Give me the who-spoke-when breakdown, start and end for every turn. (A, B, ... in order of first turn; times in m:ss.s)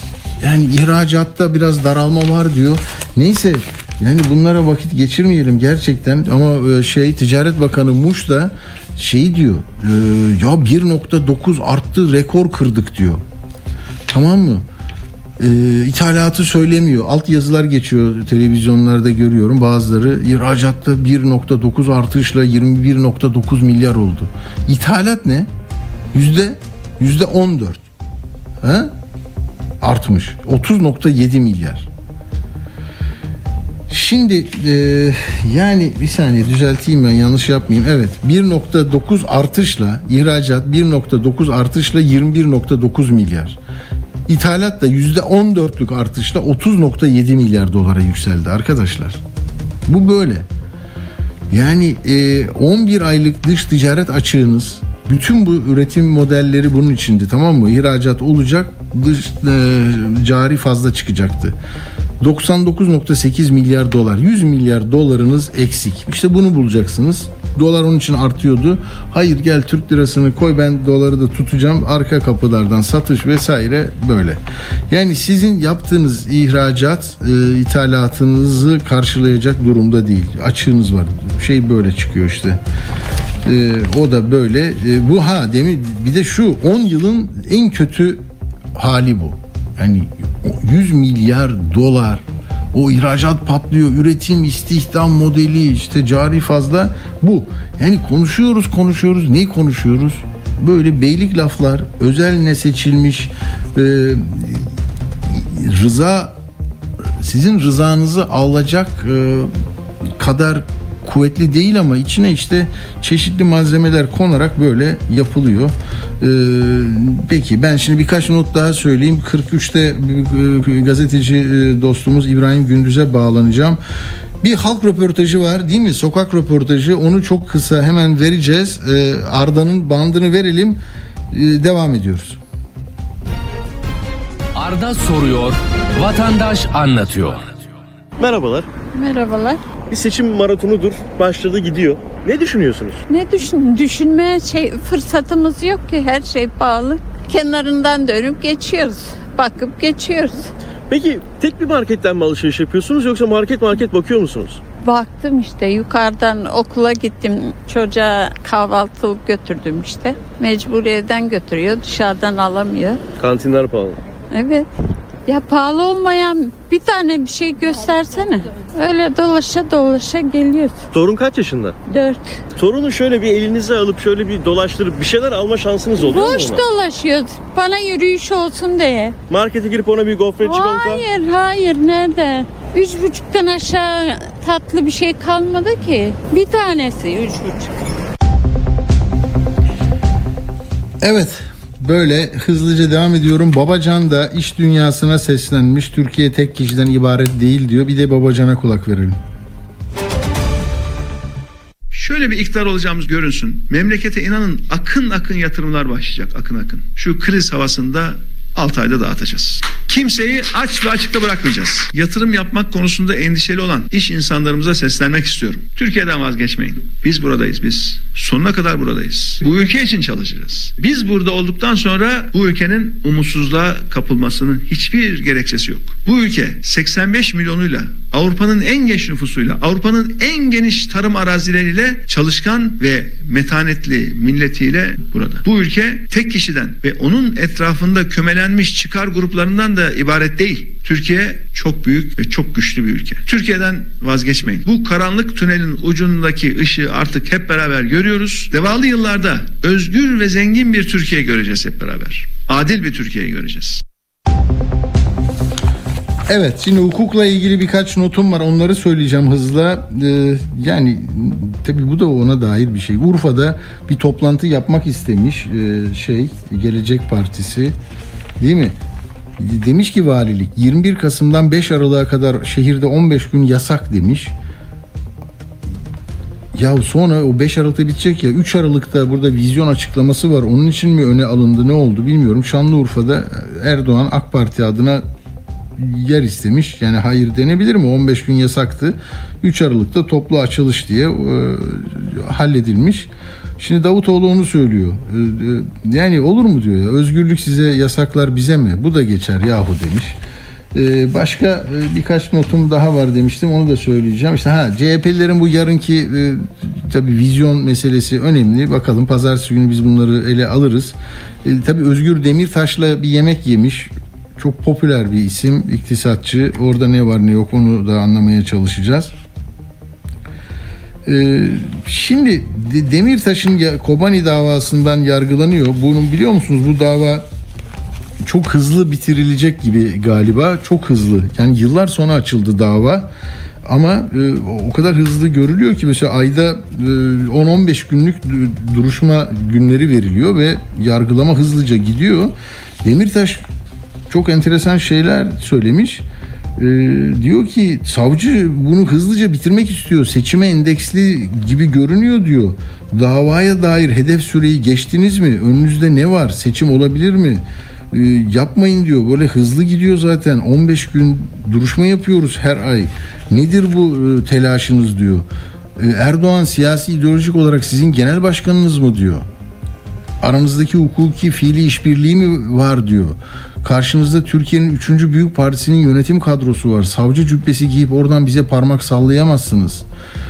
0:00.4-0:13.2 A
0:14.1-0:14.6 A
0:15.4-0:25.5 A
0:26.1-0:27.8 A
0:28.6-0:28.9 A
0:29.8-0:31.9 A
0:33.9-0:43.6 A
0:44.3-0:49.2 A
0:49.8-0:50.5 A
0:51.5-1:01.6 A
1:02.2-1:22.6 A
1:23.4-1:44.7 A
1:45.3-1:46.4 A
1:47.2-1:49.5 A
1:50.2-2:03.8 A
2:04.4-2:10.8 A
2:11.3-2:12.4 A
2:14.6-2:17.6 B
2:18.2-2:18.7 C
2:18.9-2:19.6 D
2:19.9-2:23.0 C
2:23.1-2:30.5 D
2:30.9-2:34.6 C
2:34.8-2:43.0 D
2:43.2-2:44.0 C
2:44.3-2:44.7 D
2:45.3-2:50.8 D
2:50.9-2:51.8 C
2:51.9-2:52.4 D
2:52.6-2:56.6 C
2:56.0-2:59.2 D
2:59.3-3:01.0 C
3:00.4-3:07.7 D
3:11.0-3:19.2 A
3:21.9-4:13.8 E
4:16.3-4:27.8 A
4:28.4-4:28.8 A
4:29.4-4:34.3 A
4:36.5-4:45.0 A
4:45.8-5:00.2 A
5:00.7-5:19.1 A
5:21.0-5:27.2 A
5:28.2-5:33.1 A
5:33.6-5:43.4 A
5:44.1-5:46.0 A
5:46.6-6:05.2 A
6:05.8-6:09.2 A
6:10.2-6:19.8 A